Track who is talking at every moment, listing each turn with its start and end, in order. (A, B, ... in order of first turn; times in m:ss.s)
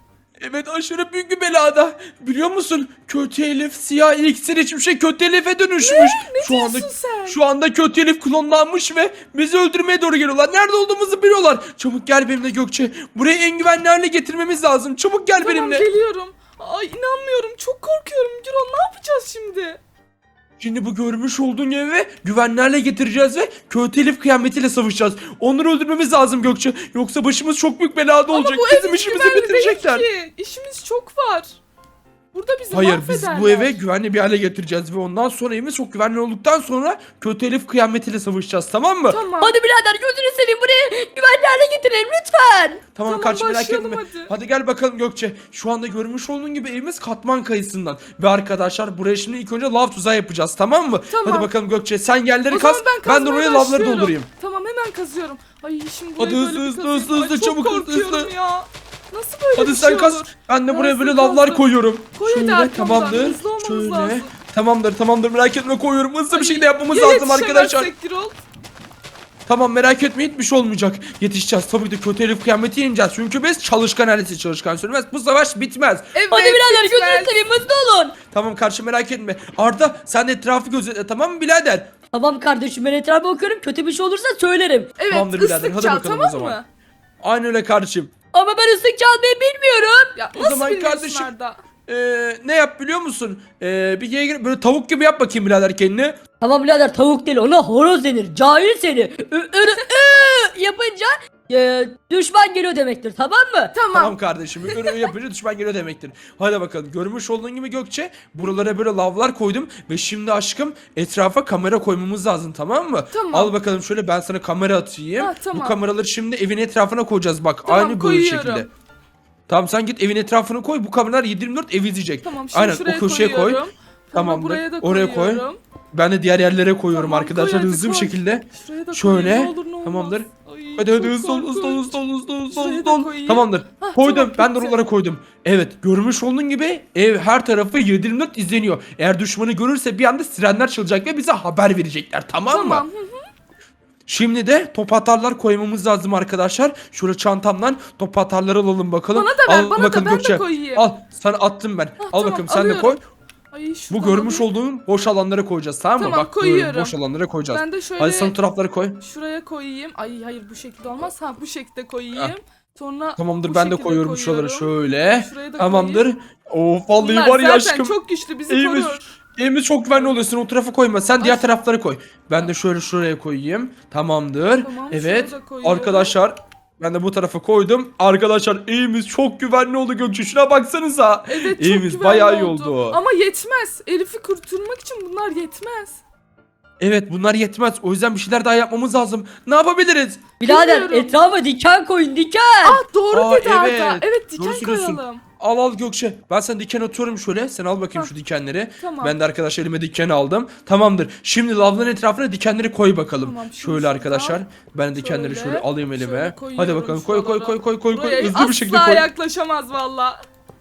0:00.4-0:15.9 A
0:05.8-0:07.4 B
0:15.4-0:19.8 B
0:20.6-0:30.0 A
0:28.3-0:31.6 B
0:32.3-0:33.8 B
0:32.7-0:39.2 A
0:39.1-0:39.6 B
0:39.4-0:42.8 C
0:42.9-0:54.3 A
0:43.0-0:44.3 B
0:51.1-0:51.5 B
0:52.5-1:04.3 B
0:56.2-0:58.3 A
0:59.6-1:07.9 A
1:06.3-1:08.4 B
1:09.4-1:16.1 A
1:16.1-1:17.4 B
1:16.3-1:18.1 C
1:18.3-1:21.9 A
1:22.1-1:24.9 C
1:25.0-1:26.6 B
1:25.1-1:26.6 A
1:27.2-1:28.1 A
1:28.3-1:30.1 C
1:30.1-1:31.6 B
1:30.3-1:31.3 A
1:31.8-1:36.2 A
1:36.4-1:43.7 C
1:43.7-1:44.2 B
1:43.9-1:58.7 A
1:44.7-1:44.9 B
1:53.1-1:53.5 B
1:55.2-1:55.8 B
1:57.6-1:58.7 B
1:59.5-2:03.6 A
2:02.2-2:05.6 B
2:04.1-2:22.8 A
2:06.9-2:14.8 B
2:22.5-2:23.3 B
2:24.1-2:33.0 A
2:29.1-2:30.9 B
2:32.0-2:33.0 B
2:33.5-2:34.5 B
2:33.9-2:39.0 A
2:36.0-2:37.0 B
2:37.5-2:38.4 B
2:39.0-2:46.0 B
2:43.2-2:48.0 A
2:47.0-2:49.1 B
2:48.5-3:03.0 A
2:51.2-2:51.5 B
2:54.6-2:56.2 B
3:01.3-3:06.0 B
3:06.8-3:10.3 A
3:10.4-3:12.8 C
3:10.4-3:11.2 B
3:12.6-3:15.2 B
3:13.1-3:29.1 A
3:18.8-3:19.2 B
3:23.2-3:24.4 B
3:24.9-3:30.2 B